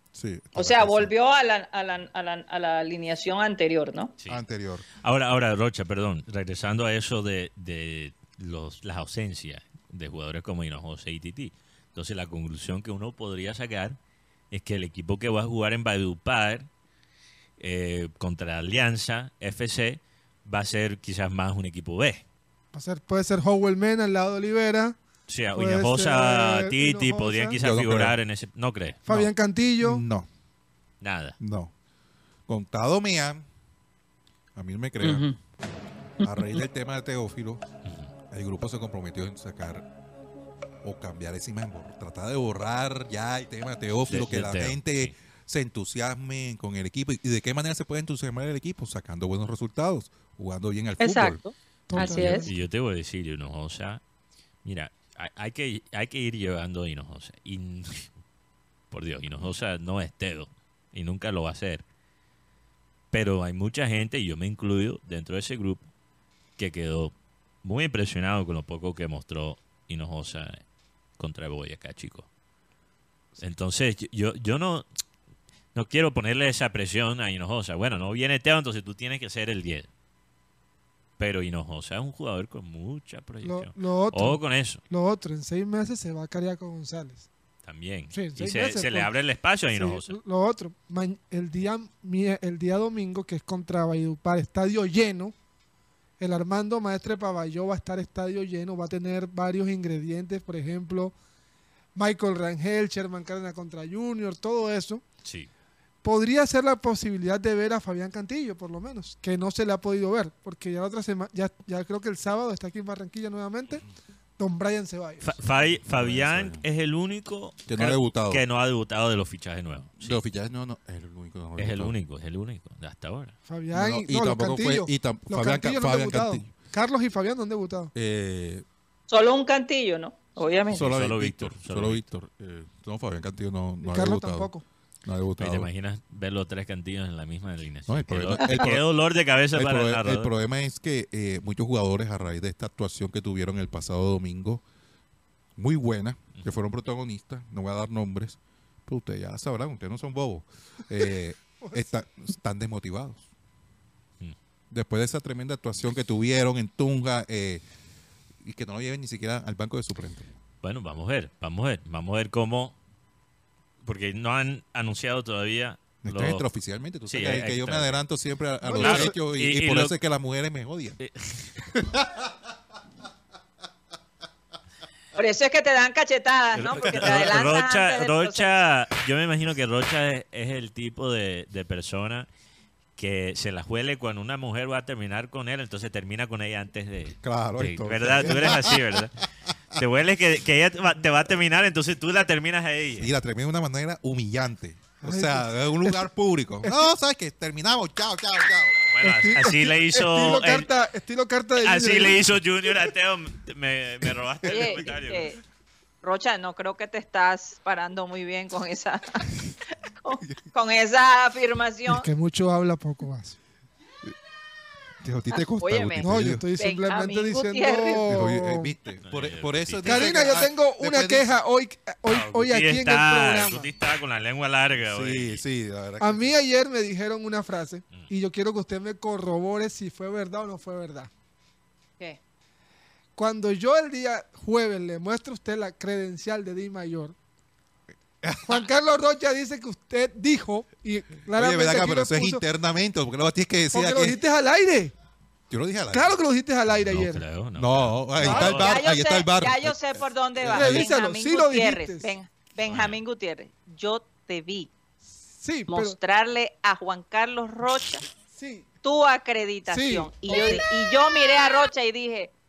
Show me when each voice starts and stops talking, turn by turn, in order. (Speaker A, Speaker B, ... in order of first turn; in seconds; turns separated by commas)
Speaker A: 0.1-1.1, Speaker B: 0.6-4.1, Speaker A: 4.3-4.9, Speaker C: 5.0-14.0, Speaker C: 14.5-16.7, Speaker C: 17.6-22.2, Speaker D: 22.7-25.0, Speaker C: 25.3-29.1, Speaker D: 25.6-27.6, Speaker A: 27.6-28.2, Speaker D: 29.1-30.0, Speaker A: 29.8-30.3, Speaker C: 31.0-31.4, Speaker A: 31.4-31.7, Speaker A: 32.5-33.5, Speaker A: 34.5-35.3, Speaker B: 35.0-35.4, Speaker B: 36.2-36.6, Speaker A: 36.2-37.6, Speaker C: 37.9-38.1, Speaker A: 38.3-39.9, Speaker A: 40.8-51.4, Speaker C: 44.1-45.1, Speaker B: 51.0-52.5, Speaker D: 51.9-52.6, Speaker C: 52.0-54.0, Speaker C: 54.6-58.1, Speaker C: 58.9-61.8, Speaker C: 63.1-65.9, Speaker C: 66.6-70.6, Speaker C: 71.2-72.3, Speaker C: 73.4-74.9, Speaker C: 75.8-79.9, Speaker C: 81.2-84.8, Speaker D: 83.4-87.3, Speaker C: 87.6-90.2, Speaker D: 88.1-89.1, Speaker D: 89.7-95.3, Speaker D: 96.2-101.2, Speaker D: 102.0-105.0, Speaker C: 105.2-105.5, Speaker D: 106.0-113.8, Speaker D: 114.4-115.3, Speaker C: 115.2-120.2, Speaker A: 115.7-116.6, Speaker A: 117.7-118.4, Speaker A: 120.0-122.0, Speaker C: 121.6-123.3, Speaker D: 123.5-127.9, Speaker A: 123.7-126.5, Speaker A: 128.0-128.7, Speaker B: 129.1-130.9, Speaker C: 130.7-132.1, Speaker A: 130.7-134.5, Speaker D: 133.8-134.6, Speaker A: 135.0-135.7, Speaker C: 135.4-140.3, Speaker A: 137.9-138.8, Speaker A: 139.5-144.6, Speaker A: 145.6-153.3, Speaker A: 154.7-157.7, Speaker A: 158.4-160.3, Speaker C: 160.6-162.8, Speaker C: 163.8-166.4, Speaker A: 166.0-171.0, Speaker C: 167.1-168.0, Speaker D: 168.6-169.2, Speaker C: 168.8-169.9, Speaker C: 171.0-171.8, Speaker B: 175.2-178.5, Speaker C: 176.6-182.3, Speaker A: 177.0-177.3, Speaker C: 183.0-189.2, Speaker A: 187.2-189.0, Speaker C: 189.8-193.1, Speaker A: 193.0-198.8, Speaker D: 195.0-196.0, Speaker C: 198.9-200.7, Speaker D: 199.0-202.2, Speaker C: 201.6-205.3, Speaker A: 204.4-204.9, Speaker B: 204.4-205.4, Speaker B: 206.0-209.3, Speaker B: 210.0-212.1, Speaker D: 211.9-213.4, Speaker A: 215.0-216.5, Speaker B: 215.6-218.1, Speaker D: 216.0-218.7, Speaker A: 218.1-221.3, Speaker C: 219.1-220.1, Speaker D: 219.8-223.7, Speaker C: 222.1-225.4, Speaker A: 224.8-226.3, Speaker D: 226.0-231.1, Speaker D: 233.2-237.2, Speaker A: 238.2-238.7, Speaker D: 238.4-242.4, Speaker A: 241.3-244.2, Speaker D: 243.7-244.9, Speaker A: 245.5-246.2, Speaker D: 245.9-247.2, Speaker C: 246.8-248.8, Speaker A: 247.6-250.9, Speaker D: 248.2-248.6, Speaker B: 248.3-254.7, Speaker D: 250.5-252.1, Speaker C: 252.7-253.0, Speaker D: 255.4-256.0, Speaker B: 255.7-258.0, Speaker D: 258.3-258.7, Speaker B: 258.8-262.3, Speaker D: 259.7-260.7